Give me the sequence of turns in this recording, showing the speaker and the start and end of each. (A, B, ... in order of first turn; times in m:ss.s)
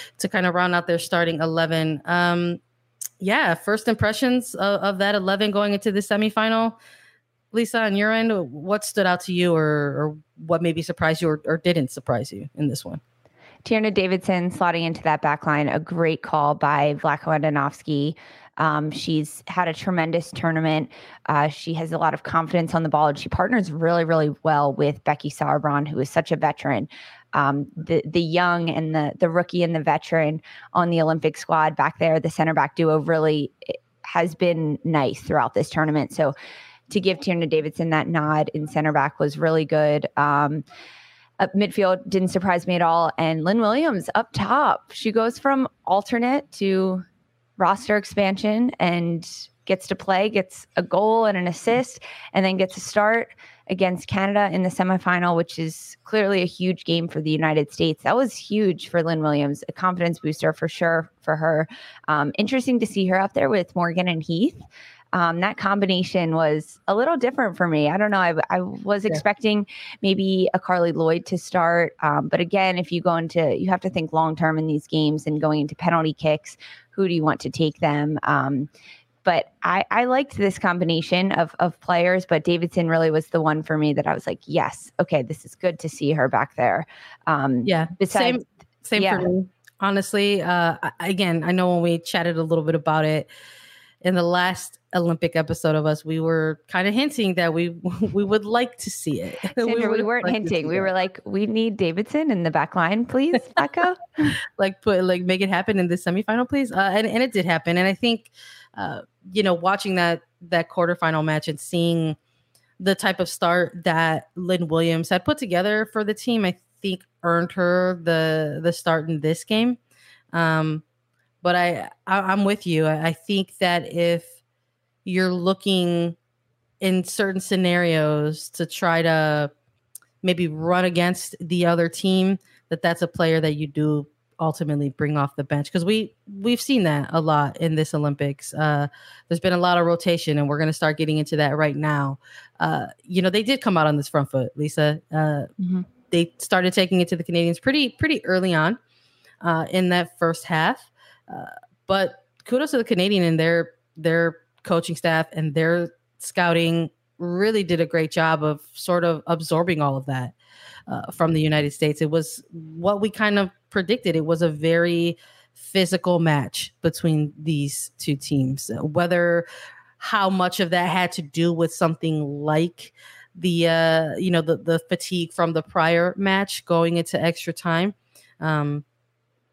0:00.2-0:02.6 A
0:03.2-0:06.8 A
0:07.5-0:13.0 A
0:13.6-0:36.3 B
0:36.9-0:40.6 B
0:41.4-0:47.0 B
0:47.6-1:18.7 B
1:19.2-1:28.4 B
1:27.6-1:33.3 A
1:29.0-1:29.3 B
1:34.0-1:40.9 A
1:39.6-1:44.3 B
1:44.6-1:52.2 A
1:52.8-1:59.8 A
2:00.3-2:00.8 A
2:01.4-2:04.3 A
2:05.0-2:06.2 A
2:06.8-2:09.5 A
2:10.2-2:28.8 A
2:29.4-2:40.3 A
2:40.9-2:49.5 A
2:50.0-2:58.8 A